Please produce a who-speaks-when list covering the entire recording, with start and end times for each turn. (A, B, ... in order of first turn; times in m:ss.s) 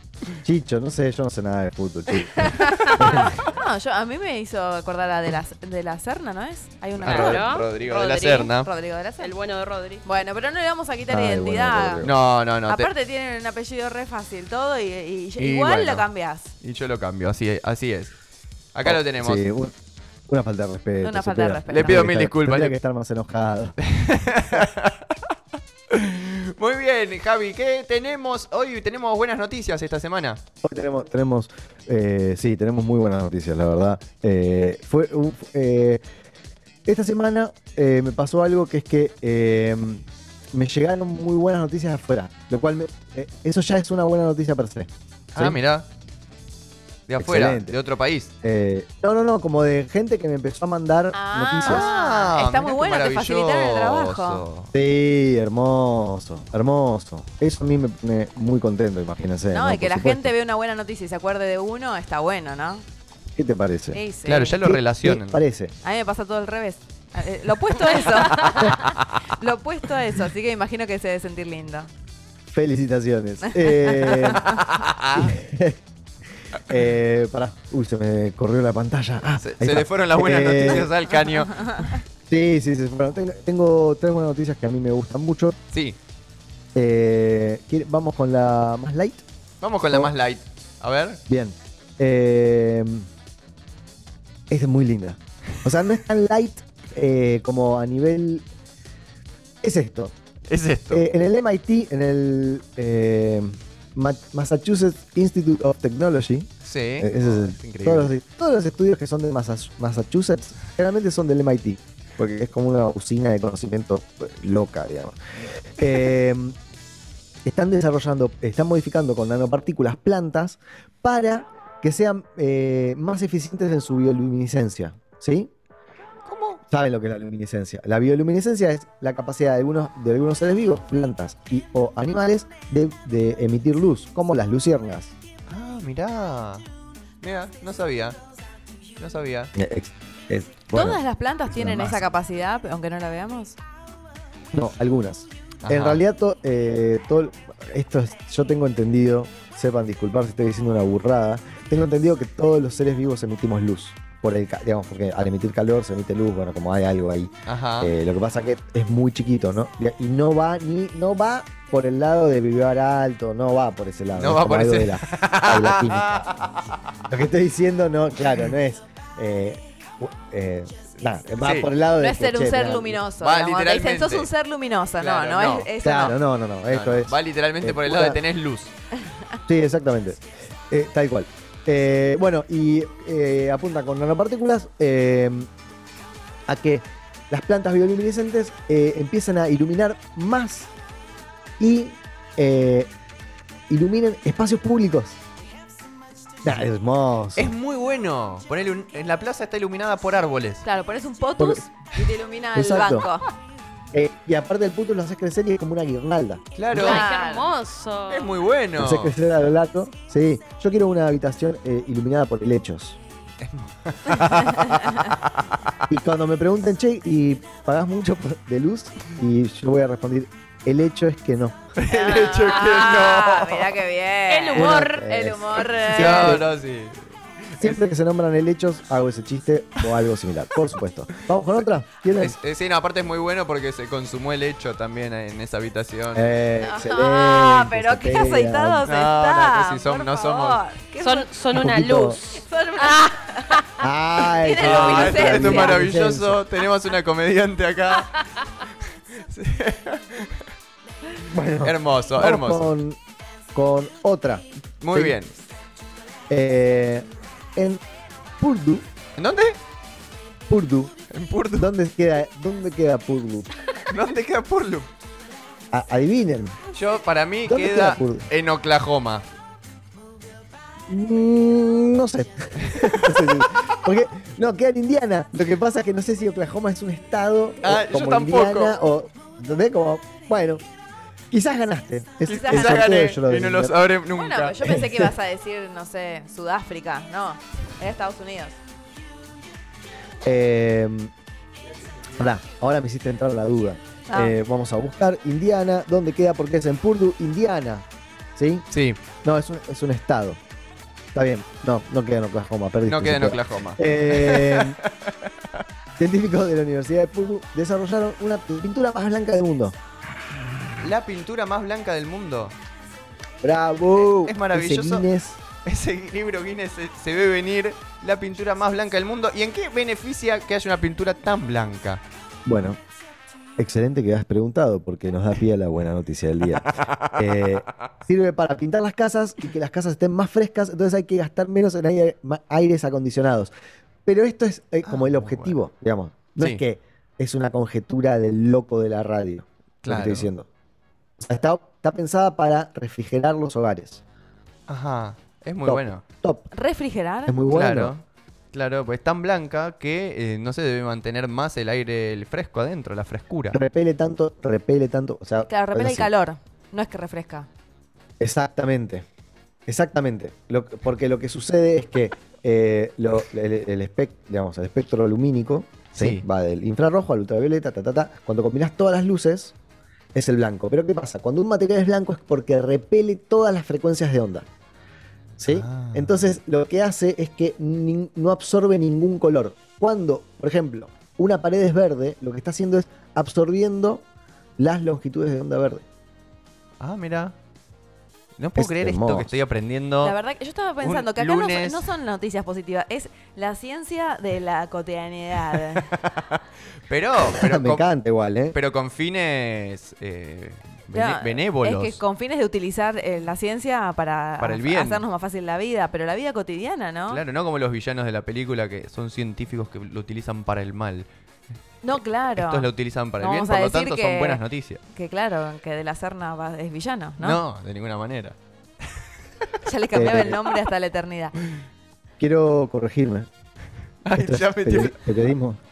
0:00.4-0:03.4 A
0:03.3-0:09.3 B
0:07.0-0:08.7 C
0:07.1-0:08.4 D
0:09.2-0:10.0 D
0:10.0-0:12.1 B
0:11.1-0:12.1 A
0:12.0-0:12.9 C
0:12.7-0:16.5 B
0:15.4-0:16.1 C
0:16.6-0:18.1 C
0:18.7-0:19.4 C
0:18.8-0:19.7 A
0:20.3-0:23.8 A
0:21.0-0:22.2 B
0:21.7-0:22.8 C
0:23.8-0:25.3 C
0:25.9-0:30.4 C
0:30.6-0:36.0 A
0:36.9-0:45.6 A
0:45.3-0:45.9 C
0:47.1-0:48.3 C
0:47.2-0:47.7 A
0:48.4-0:51.9 A
0:51.1-0:54.4 B
0:51.6-0:54.7 C
0:54.7-1:00.3 A
0:59.5-1:02.8 B
1:03.4-1:04.0 A
1:03.9-1:04.6 B
1:04.2-1:05.4 C
1:04.6-1:05.7 A
1:05.8-1:11.9 B
1:08.0-1:09.3 C
1:12.5-1:14.5 A
1:13.4-1:14.3 B
1:14.1-1:15.4 C
1:15.1-1:15.8 A
1:16.6-1:20.9 A
1:19.4-1:22.0 C
1:22.3-1:25.6 A
1:25.7-1:26.0 C
1:26.7-1:29.2 A
1:29.6-1:31.2 C
1:31.3-1:33.1 A
1:34.5-1:38.4 A
1:39.6-1:40.1 A
1:40.5-1:41.1 C
1:40.9-1:46.5 A
1:46.6-1:48.1 C
1:47.0-1:56.6 A
1:57.4-2:05.5 A
2:06.3-2:06.6 C
2:06.7-2:15.1 A
2:15.5-2:16.6 C
2:17.2-2:18.2 C
2:19.0-2:19.5 C
2:19.6-2:22.0 A
2:20.7-2:23.6 B
2:24.5-2:46.3 A
2:25.6-2:26.0 C
2:37.5-2:37.9 C
2:44.2-2:46.9 C
2:47.1-2:53.0 A
2:51.4-2:51.7 C
2:52.0-2:56.2 B
2:53.2-2:54.3 C
2:55.0-2:55.7 C
2:55.8-2:58.2 A
2:56.7-2:58.7 C
2:59.5-3:05.5 A
3:06.5-3:10.7 A
3:11.6-3:12.9 A
3:13.7-3:15.2 A
3:16.4-3:17.5 A
3:17.4-3:20.6 C
3:20.6-3:23.3 B
3:21.4-3:21.6 A
3:22.5-3:23.1 A
3:23.9-3:26.4 A
3:26.6-3:27.1 C
3:26.7-3:28.4 D
3:26.8-3:27.5 B
3:28.1-3:29.2 C
3:28.8-3:33.0 A
3:33.4-3:35.7 C
3:34.4-3:34.9 B
3:35.9-3:41.6 A
3:41.8-3:43.7 C
3:41.9-3:46.4 B
3:44.3-3:45.0 D
3:44.5-3:46.4 A
3:45.9-3:47.8 C
3:47.6-3:52.3 A
3:51.5-3:56.4 C
3:56.2-3:58.9 A
3:56.6-4:01.3 B
3:58.9-4:00.6 C
4:01.0-4:03.8 D
4:01.5-4:02.2 A
4:02.3-4:03.6 B
4:03.8-4:06.4 A
4:04.3-4:05.8 B
4:04.6-4:10.4 C
4:11.2-4:13.0 A
4:11.6-4:12.7 C
4:13.5-4:15.2 A
4:14.8-4:15.3 C
4:16.3-4:17.8 A
4:18.4-4:18.8 A
4:19.2-4:19.6 C
4:20.5-4:20.9 A
4:21.1-4:21.7 C
4:21.6-4:23.5 A
4:23.9-4:24.9 C
4:25.7-4:26.6 A
4:26.7-4:29.2 C
4:27.4-4:28.3 A
4:30.9-4:40.6 A
4:32.7-4:33.5 C
4:37.6-4:38.8 C
4:41.3-4:43.7 A
4:42.3-4:42.9 B
4:42.3-4:44.6 C
4:44.1-4:48.6 B
4:44.6-4:45.1 A
4:50.2-4:51.1 A
4:52.2-4:58.7 A
4:54.1-4:54.4 B
4:58.7-4:59.0 C
4:59.2-5:00.4 A
5:01.2-5:04.8 A
5:02.9-5:05.6 C
5:06.0-5:09.8 A
5:10.8-5:12.6 C
5:13.4-5:15.4 A
5:14.1-5:15.1 C
5:15.6-5:22.0 C
5:22.4-5:22.8 A
5:23.6-5:33.5 A
5:26.6-5:27.5 C
5:34.1-5:40.5 A
5:34.8-5:35.6 C
5:36.4-5:36.6 C
5:39.8-5:40.3 C
5:41.2-5:44.0 A
5:44.7-5:46.0 C
5:45.6-5:46.5 A
5:46.5-5:47.4 B
5:47.3-5:47.9 A
5:47.4-5:53.6 C
5:53.5-5:56.1 A
5:55.5-5:57.5 B
5:58.2-5:59.1 A
5:59.7-6:09.6 A
6:05.9-6:06.2 C
6:10.2-6:14.4 A
6:15.4-6:24.0 A
6:15.4-6:16.4 C
6:24.6-6:25.8 A
6:26.8-6:27.4 C
6:28.4-6:30.2 C
6:28.6-6:29.3 A
6:30.0-6:35.9 B
6:30.8-6:31.9 C
6:35.5-6:37.9 C
6:37.2-6:38.6 A
6:38.5-6:42.0 C
6:40.9-6:47.2 B
6:44.4-6:45.1 C
6:47.1-6:51.1 C
6:51.8-6:54.4 B
6:52.4-6:54.8 C
6:54.9-6:57.4 B
6:57.2-6:58.4 C
6:59.6-7:01.4 B
6:59.9-7:00.4 A
7:02.2-7:03.3 A
7:04.0-7:05.2 C
7:04.2-7:05.6 A